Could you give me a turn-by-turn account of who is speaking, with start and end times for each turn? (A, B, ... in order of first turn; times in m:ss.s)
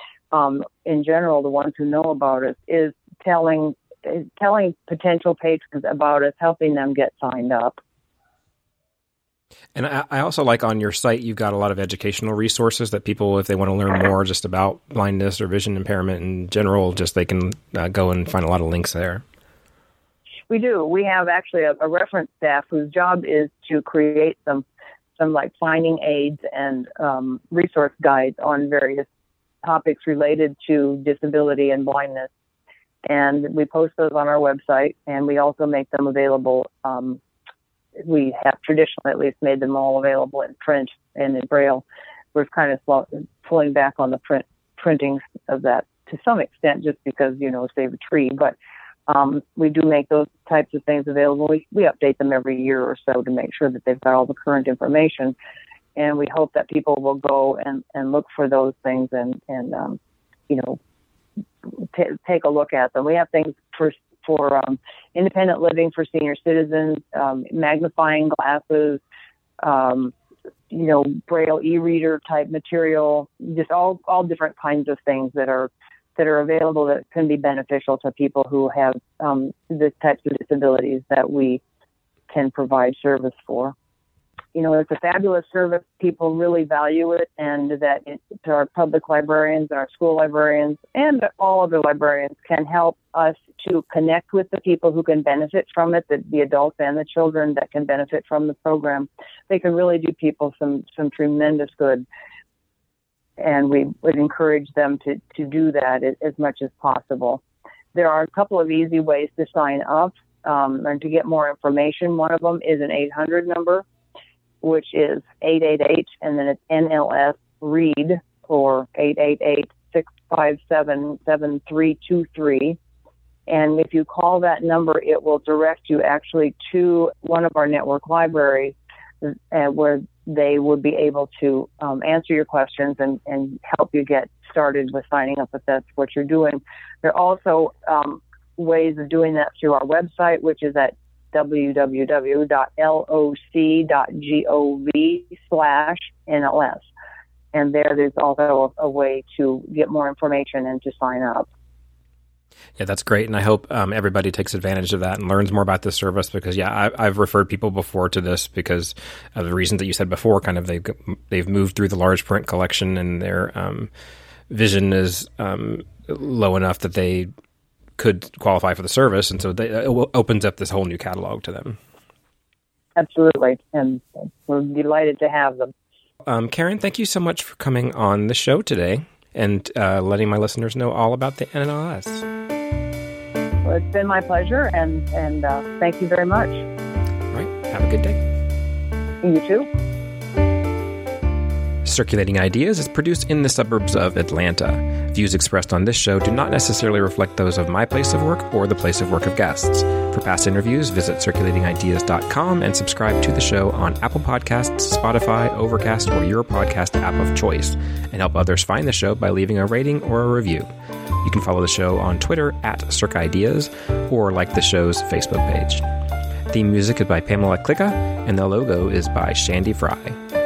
0:00.3-0:07.8 A
0:09.8-0:19.2 B
0:20.5-0:24.6 A
0:25.2-0:29.1 A
0:29.6-0:32.3 A
0:33.1-0:37.2 A
0:38.0-0:48.6 A
0:49.1-0:55.4 A
0:56.0-1:00.8 A
1:01.6-1:09.0 A
1:09.6-1:10.1 A
1:10.7-1:21.6 A
1:22.3-1:23.8 A
1:24.5-1:42.1 A
1:43.4-1:47.4 A
1:47.9-1:53.8 A
1:54.6-2:02.8 A
2:03.5-2:26.9 A
2:27.5-2:31.5 A
2:32.8-2:43.9 B
2:44.5-2:47.3 B
2:48.0-2:51.8 B
2:53.0-2:55.7 A
2:56.3-3:02.2 B
3:03.6-3:06.6 A
3:07.3-3:08.2 B
3:09.2-3:09.7 A
3:11.8-3:30.7 B
3:31.2-3:35.8 B
3:36.5-3:40.2 B